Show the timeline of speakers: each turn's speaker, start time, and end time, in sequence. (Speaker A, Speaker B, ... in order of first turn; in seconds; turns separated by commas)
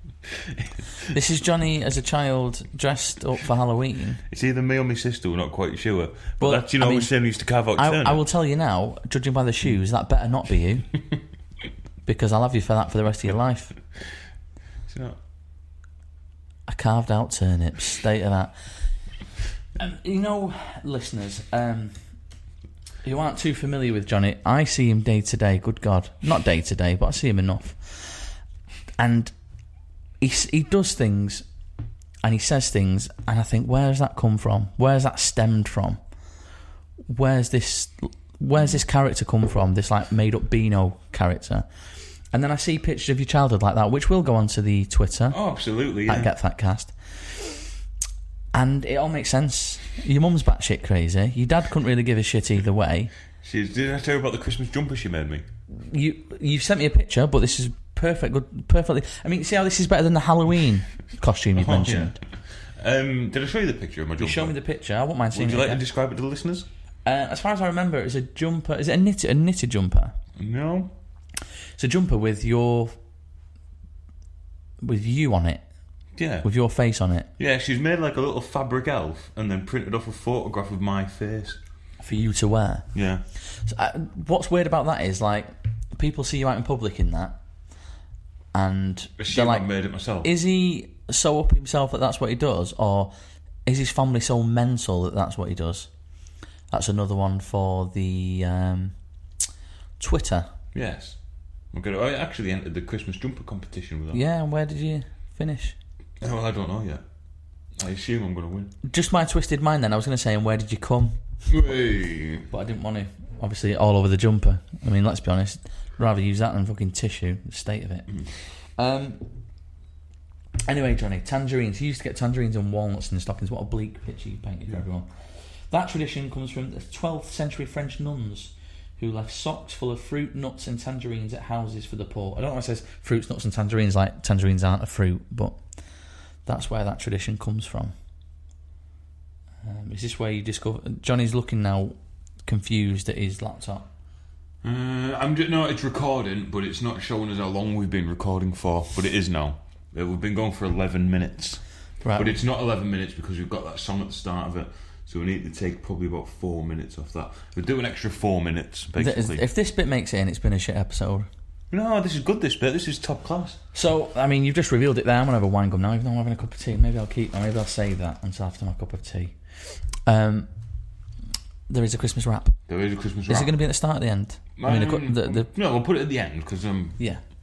Speaker A: 0.4-0.7, Speaker B: 1.1-4.2, Speaker A: 4.3-8.2, Speaker B: 6.4-7.1, Speaker B: 7.8-10.9, Speaker B: 12.1-13.7, Speaker A: 14.9-15.2, Speaker B: 16.7-18.5, Speaker B: 19.8-21.9, Speaker B: 23.0-28.3, Speaker B: 29.0-29.3, Speaker B: 30.2-31.4, Speaker B: 32.2-36.0, Speaker B: 37.1-41.7, Speaker B: 42.3-45.4, Speaker A: 45.3-46.3, Speaker B: 46.0-47.6, Speaker B: 48.5-53.1, Speaker A: 53.4-55.4, Speaker B: 55.7-62.2, Speaker A: 61.5-64.5, Speaker B: 64.2-65.8, Speaker A: 65.3-66.7, Speaker B: 67.0-70.2, Speaker A: 70.3-70.9, Speaker B: 71.8-73.0, Speaker B: 74.8-75.6, Speaker A: 76.2-76.5, Speaker B: 76.4-77.3, Speaker A: 77.4-81.6, Speaker B: 82.0-82.9, Speaker A: 82.9-83.2, Speaker B: 83.5-87.3, Speaker B: 88.5-89.7, Speaker A: 89.2-90.3, Speaker B: 90.2-93.1, Speaker B: 93.7-95.9, Speaker B: 96.7-98.9, Speaker B: 100.0-100.5, Speaker A: 100.7-101.2, Speaker A: 101.7-104.2, Speaker B: 104.1-105.8, Speaker A: 106.2-107.0, Speaker A: 107.8-108.7, Speaker B: 108.8-111.2, Speaker A: 111.5-112.5, Speaker B: 112.5-118.1, Speaker B: 118.8-119.2, Speaker B: 120.7-125.1, Speaker B: 125.7-135.6, Speaker B: 136.4-137.9, Speaker B: 139.6-143.8, Speaker A: 144.6-151.6, Speaker B: 152.0-152.3, Speaker A: 152.2-159.4, Speaker B: 159.0-161.3, Speaker A: 161.7-163.6, Speaker B: 163.7-169.3, Speaker B: 170.0-170.5, Speaker B: 171.7-172.6, Speaker A: 172.7-173.5, Speaker B: 173.3-175.5, Speaker A: 174.6-177.0